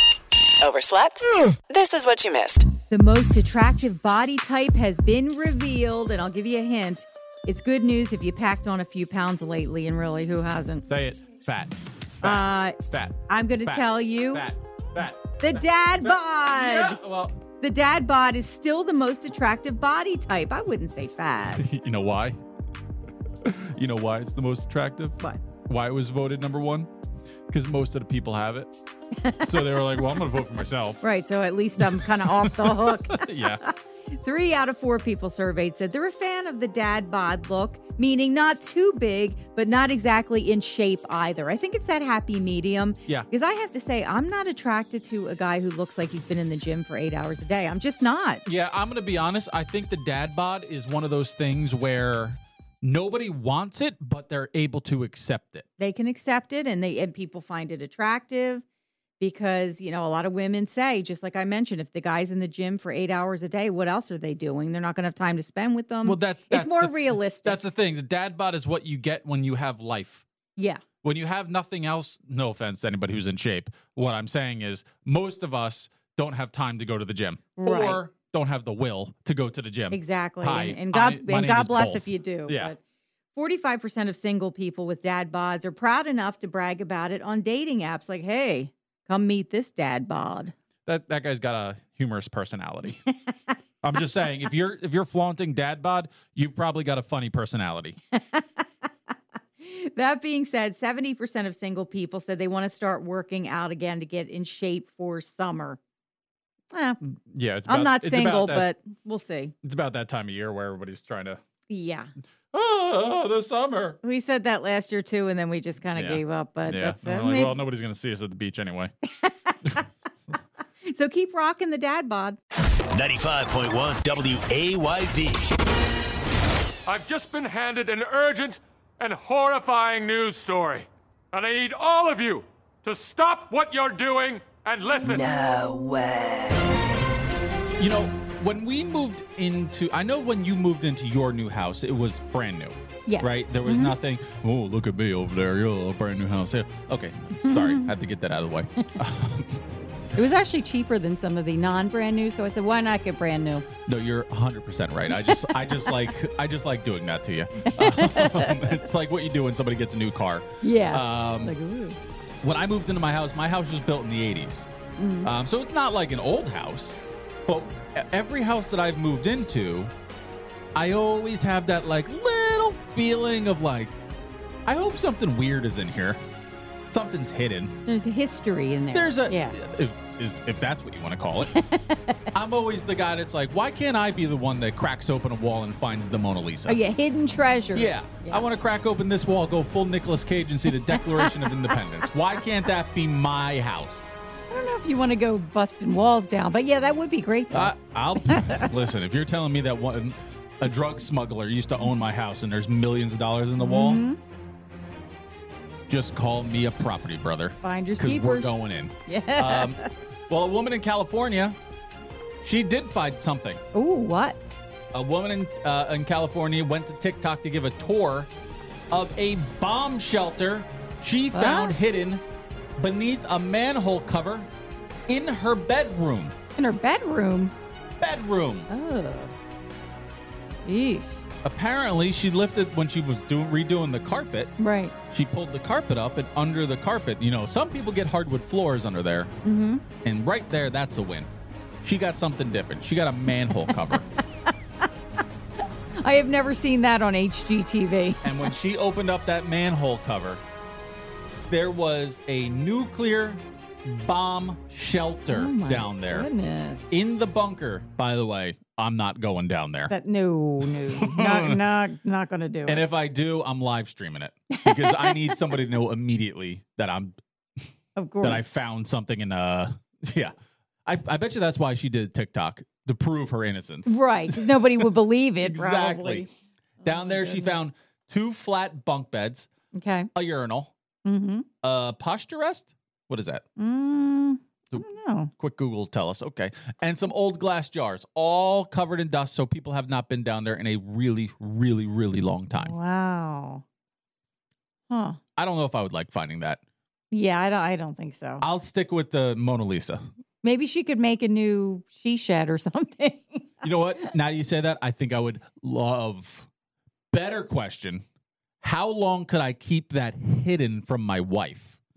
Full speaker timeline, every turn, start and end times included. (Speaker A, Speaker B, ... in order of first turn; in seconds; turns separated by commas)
Speaker A: 0.6-2.7, Speaker B: 2.9-10.9, Speaker C: 10.9-17.4, Speaker B: 12.2-14.5, Speaker B: 15.4-17.0, Speaker B: 17.6-21.6, Speaker C: 21.6-22.4, Speaker C: 23.4-26.9, Speaker C: 27.5-28.7, Speaker B: 29.2-29.6, Speaker C: 29.4-31.0, Speaker B: 31.0-48.5, Speaker C: 31.8-33.6, Speaker C: 48.5-55.6, Speaker B: 55.8-58.6, Speaker B: 59.2-67.6, Speaker C: 66.0-70.2, Speaker B: 70.6-70.8, Speaker C: 71.0-82.7, Speaker B: 77.6-78.0, Speaker B: 79.9-82.8, Speaker B: 83.3-90.5, Speaker C: 90.9-93.0, Speaker C: 93.8-98.0, Speaker B: 98.1-98.7, Speaker B: 99.6-105.8, Speaker B: 106.7-107.0, Speaker C: 107.3-108.7, Speaker B: 107.7-109.5, Speaker C: 109.6-111.4, Speaker B: 111.7-112.1, Speaker C: 112.5-114.0, Speaker B: 114.0-117.6, Speaker C: 116.0-118.9, Speaker B: 119.2-119.8, Speaker B: 120.8-122.4, Speaker D: 122.9-125.5, Speaker E: 126.9-135.3, Speaker A: 135.0-136.6, Speaker C: 137.8-149.6, Speaker B: 143.1-143.9, Speaker B: 147.4-147.9, Speaker B: 150.2-153.7, Speaker C: 153.9-161.5, Speaker B: 155.1-156.1, Speaker B: 157.7-158.8, Speaker B: 160.6-162.0, Speaker C: 162.4-164.7, Speaker B: 165.0-165.3, Speaker C: 165.2-169.9, Speaker C: 170.8-173.9, Speaker C: 174.7-176.2, Speaker C: 176.9-177.7, Speaker B: 177.9-179.6, Speaker C: 178.9-181.6, Speaker B: 181.6-182.2, Speaker C: 182.3-186.8, Speaker B: 186.7-188.4, Speaker C: 187.7-194.1, Speaker B: 190.9-191.8, Speaker B: 194.5-198.7, Speaker C: 197.5-204.0, Speaker B: 203.6-204.2, Speaker C: 205.9-209.8, Speaker B: 207.6-208.6, Speaker B: 209.1-209.9, Speaker C: 210.3-211.6, Speaker C: 212.4-213.6, Speaker B: 213.7-214.5, Speaker C: 214.9-218.3, Speaker C: 218.9-222.2, Speaker B: 221.3-221.8, Speaker C: 222.8-224.5, Speaker C: 225.1-226.4, Speaker B: 226.6-227.5, Speaker C: 228.0-228.7, Speaker B: 228.7-229.3, Speaker B: 230.7-231.2, Speaker C: 231.4-234.5, Speaker B: 234.6-234.9, Speaker C: 235.1-239.3, Speaker B: 239.4-239.8, Speaker C: 240.0-241.3, Speaker C: 241.8-244.1, Speaker B: 243.7-244.0, Speaker B: 246.0-248.5, Speaker C: 248.2-250.4, Speaker C: 251.5-256.3, Speaker B: 255.3-257.0, Speaker C: 256.9-259.9, Speaker B: 259.9-262.8, Speaker C: 260.6-261.6, Speaker C: 262.7-267.7, Speaker B: 264.5-265.4, Speaker B: 268.0-268.5, Speaker C: 268.2-270.3, Speaker C: 270.9-274.9, Speaker B: 273.9-276.3, Speaker C: 275.4-276.3, Speaker C: 276.8-279.5, Speaker B: 276.8-277.7, Speaker B: 279.8-280.1, Speaker C: 280.1-280.7, Speaker B: 281.1-281.5, Speaker C: 281.6-283.4, Speaker B: 283.6-285.3, Speaker C: 285.4-292.8, Speaker B: 292.6-293.6, Speaker B: 294.9-295.2, Speaker C: 295.4-296.6, Speaker B: 297.1-298.5, Speaker C: 298.4-300.0, Speaker B: 300.4-304.1, Speaker C: 303.6-306.5, Speaker C: 307.1-308.0, Speaker C: 308.6-311.8